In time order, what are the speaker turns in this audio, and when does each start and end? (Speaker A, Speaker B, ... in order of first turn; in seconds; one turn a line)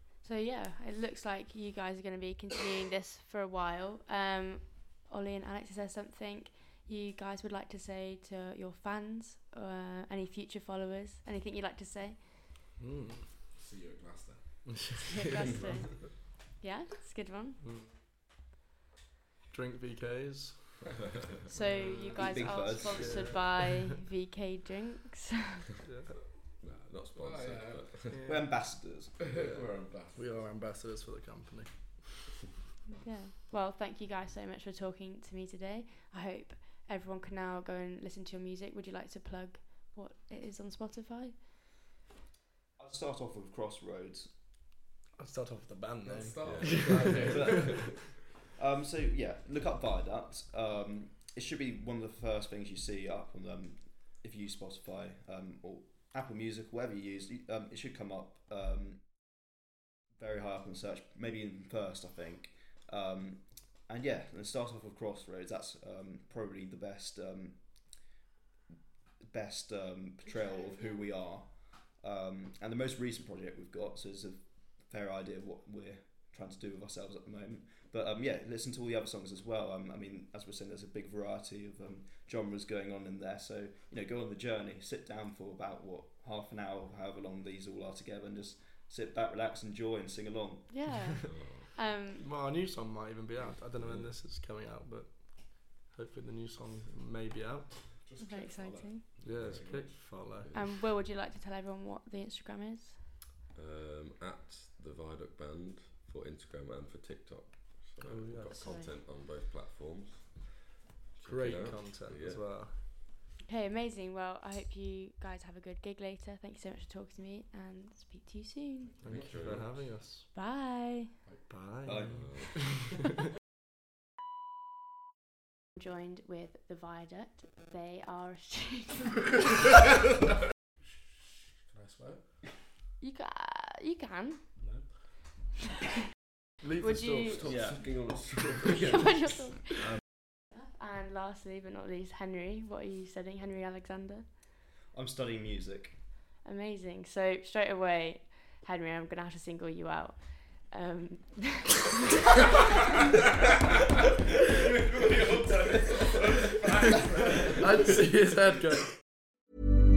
Speaker A: 0.2-12.3
Speaker B: 12.8-13.3
Speaker C: 13.4-14.9
Speaker B: 14.7-15.6
Speaker A: 15.1-17.6
Speaker B: 17.6-17.9
Speaker B: 19.5-20.9
Speaker A: 21.5-25.7
Speaker B: 21.8-22.1
Speaker D: 22.1-23.4
Speaker B: 22.9-23.5
Speaker B: 25.8-26.1
Speaker E: 26.6-28.2
Speaker C: 27.1-28.2
Speaker B: 28.1-28.7
Speaker D: 28.2-29.1
Speaker C: 29.3-30.6
Speaker B: 29.3-32.2
Speaker A: 32.9-41.4
Speaker D: 42.8-44.3
Speaker B: 45.2-47.9
Speaker C: 46.0-48.0
Speaker E: 46.4-47.5
Speaker D: 47.3-48.0
Speaker D: 48.5-59.6
Speaker D: 60.1-68.1
Speaker D: 69.2-90.7
Speaker A: 70.2-71.0
Speaker A: 90.7-92.2
Speaker E: 91.2-91.7
Speaker B: 92.2-98.0
Speaker E: 93.8-94.1
Speaker C: 98.0-100.1
Speaker A: 98.2-99.0
Speaker E: 99.2-100.6
Speaker B: 99.2-100.5
Speaker A: 100.5-103.0
Speaker E: 103.5-112.9
Speaker B: 108.0-108.7
Speaker A: 108.5-108.9
Speaker B: 111.2-112.9
Speaker A: 113.4-118.9
Speaker C: 119.0-120.0
Speaker E: 119.0-120.0
Speaker B: 119.0-120.3
Speaker A: 120.3-121.1
Speaker B: 121.5-122.9
Speaker D: 121.8-122.8
Speaker E: 122.0-122.8
Speaker A: 125.8-129.4
Speaker C: 130.8-132.4
Speaker A: 133.0-134.5
Speaker C: 134.6-135.2
Speaker B: 136.6-137.7
Speaker A: 136.8-137.5
Speaker C: 137.4-139.3
Speaker D: 137.4-138.7
Speaker A: 138.9-139.7
Speaker A: 140.5-144.3
Speaker D: 144.9-146.0
Speaker A: 146.4-151.9
Speaker C: 154.4-157.8
Speaker B: 157.6-159.0